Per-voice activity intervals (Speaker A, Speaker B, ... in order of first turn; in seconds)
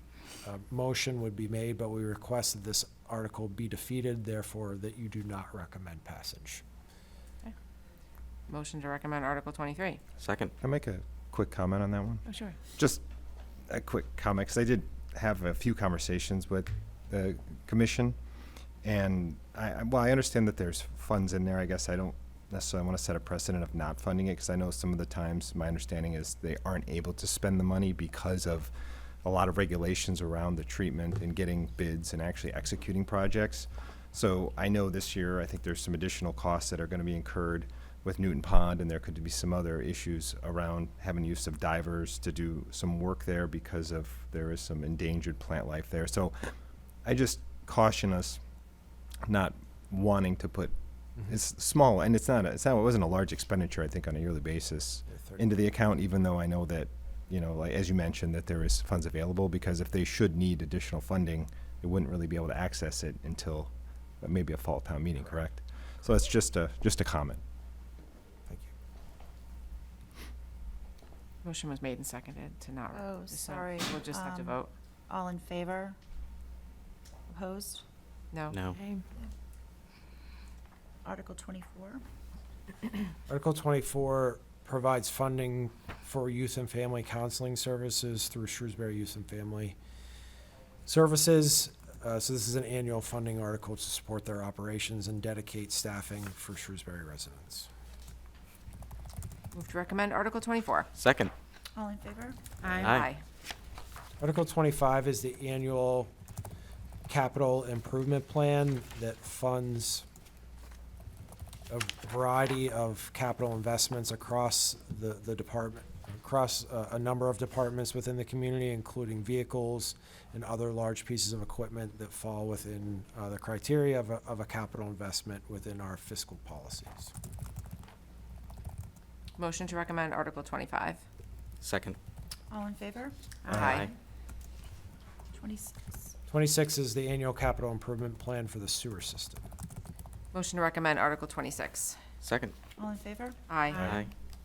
Speaker A: 0.4-6.6, 55.1-55.5, 83.3-89.8, 90.9-97.7, 104.2-106.1, 107.1-110.1, 111.7-127.1, 136.3-139.5
Speaker B: 8.5-10.0, 12.3-12.6, 71.4-74.7, 78.3-78.7, 99.5-100.9, 102.6-103.2, 129.4-131.0, 133.5-133.9, 140.3-142.0, 143.5-143.9
Speaker C: 10.2-10.5, 78.5-78.8, 101.0-101.3, 102.6-103.1, 131.6-132.0, 133.6-133.9, 142.2-142.6, 143.8-144.1
Speaker D: 10.6-13.0, 13.7-18.2, 18.8-28.7, 29.2-48.4, 49.3-50.7, 51.2-67.4
Speaker E: 72.9-76.0, 77.3-77.8, 81.0-82.0, 101.8-102.5, 132.5-133.9, 135.3-136.1, 142.8-144.0